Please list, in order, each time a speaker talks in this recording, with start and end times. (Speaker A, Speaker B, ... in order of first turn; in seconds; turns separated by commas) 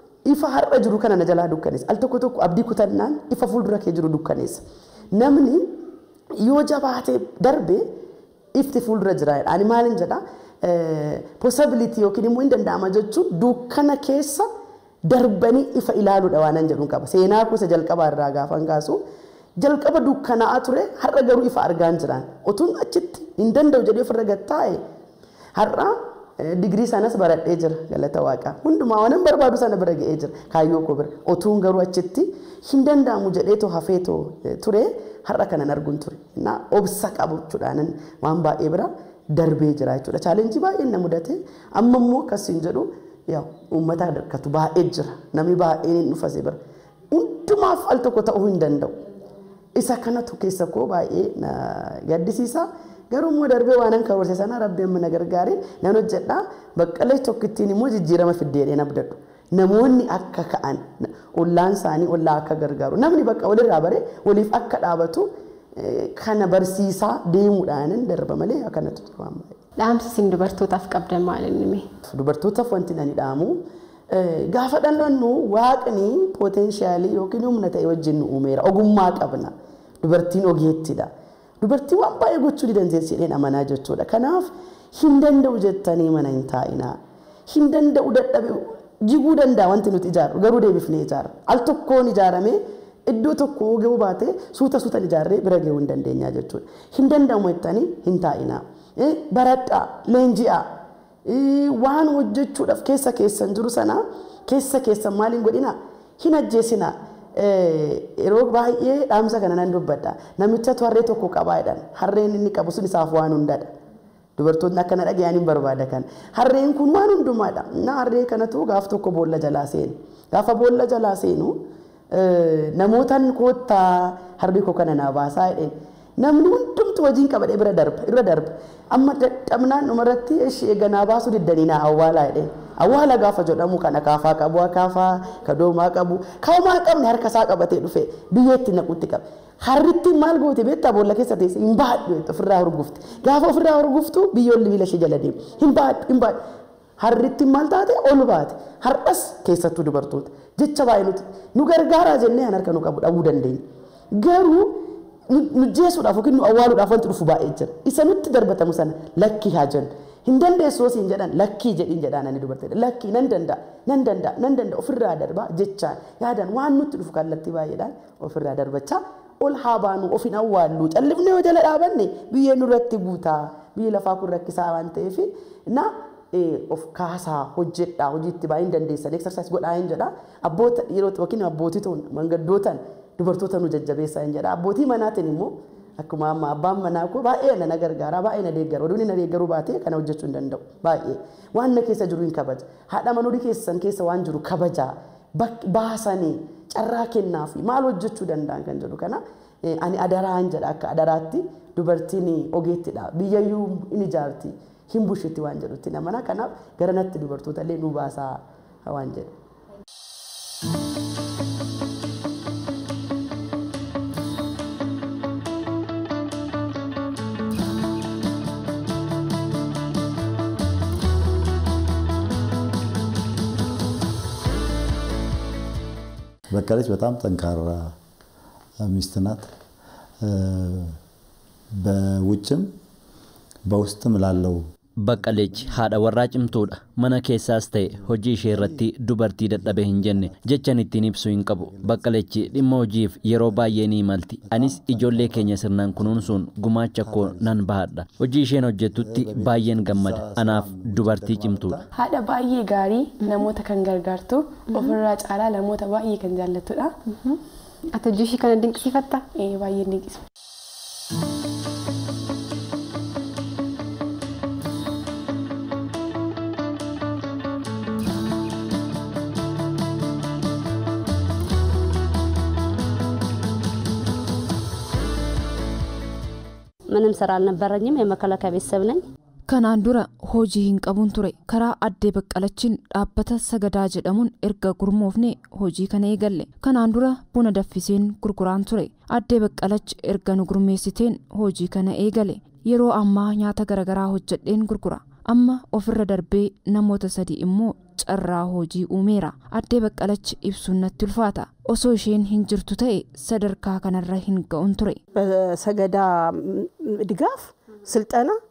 Speaker A: 0.2-5.8, Speaker A: 6.4-7.9, Speaker A: 8.5-14.5, Speaker A: 15.1-19.0, Speaker A: 19.6-24.8, Speaker A: 25.6-46.6, Speaker A: 47.1-49.0, Speaker A: 49.8-69.6, Speaker B: 69.8-71.9, Speaker A: 72.1-73.6, Speaker A: 74.1-87.0, Speaker A: 87.5-100.7, Speaker A: 101.2-113.7, Speaker A: 114.4-121.6, Speaker A: 122.1-146.4, Speaker A: 147.0-153.6, Speaker A: 154.1-209.3, Speaker C: 226.5-228.0, Speaker C: 228.8-229.5, Speaker C: 230.2-231.0, Speaker C: 231.8-232.7, Speaker C: 233.7-234.7, Speaker D: 235.0-251.8, Speaker C: 235.3-235.7, Speaker C: 238.5-238.8, Speaker C: 239.7-240.3, Speaker C: 241.7-242.1, Speaker C: 244.5-246.3, Speaker C: 247.0-247.6, Speaker C: 248.9-251.8, Speaker E: 251.9-256.9, Speaker B: 257.1-257.4, Speaker B: 257.9-259.3, Speaker E: 259.4-260.2, Speaker F: 276.9-279.0, Speaker G: 279.5-305.0, Speaker H: 305.1-308.4